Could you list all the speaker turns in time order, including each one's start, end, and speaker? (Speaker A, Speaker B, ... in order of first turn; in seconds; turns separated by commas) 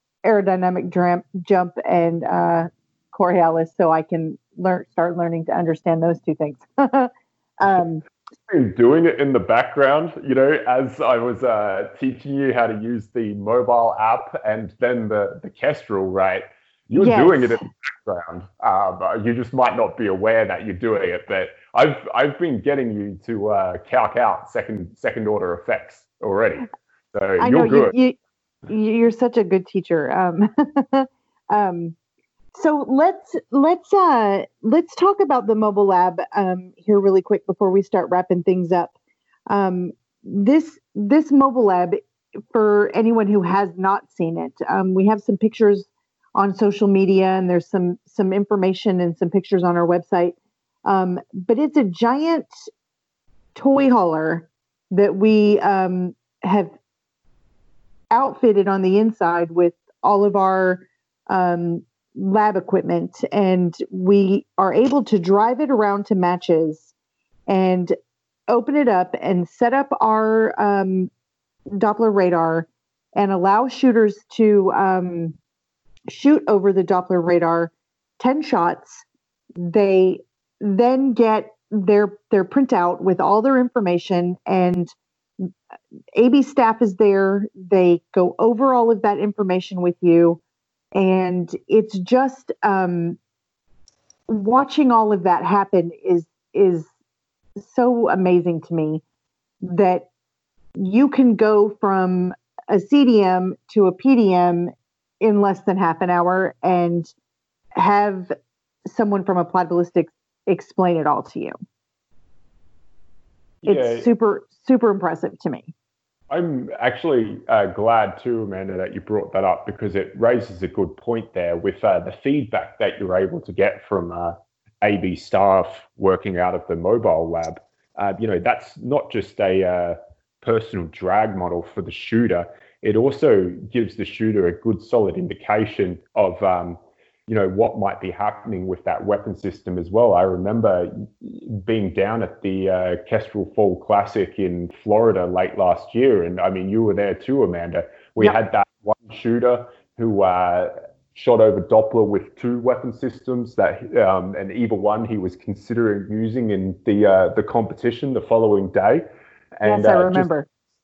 Speaker A: 0.2-8.0, Speaker B: 8.5-27.9, Speaker A: 17.0-17.6, Speaker A: 27.4-32.0, Speaker A: 32.5-39.0, Speaker A: 39.5-42.0, Speaker A: 42.5-52.5, Speaker A: 53.5-56.7, Speaker A: 58.1-66.9, Speaker A: 67.5-68.0, Speaker A: 68.5-71.1, Speaker A: 71.7-75.4, Speaker A: 76.1-79.0, Speaker A: 79.6-84.9, Speaker A: 86.2-90.4, Speaker A: 90.9-93.2, Speaker A: 94.3-96.9, Speaker A: 97.6-99.0, Speaker A: 99.6-100.1, Speaker A: 100.8-107.1, Speaker A: 107.8-108.3, Speaker A: 108.9-111.5, Speaker B: 113.6-114.1, Speaker A: 113.7-115.7, Speaker B: 116.3-159.0, Speaker B: 159.6-160.3, Speaker A: 159.7-160.5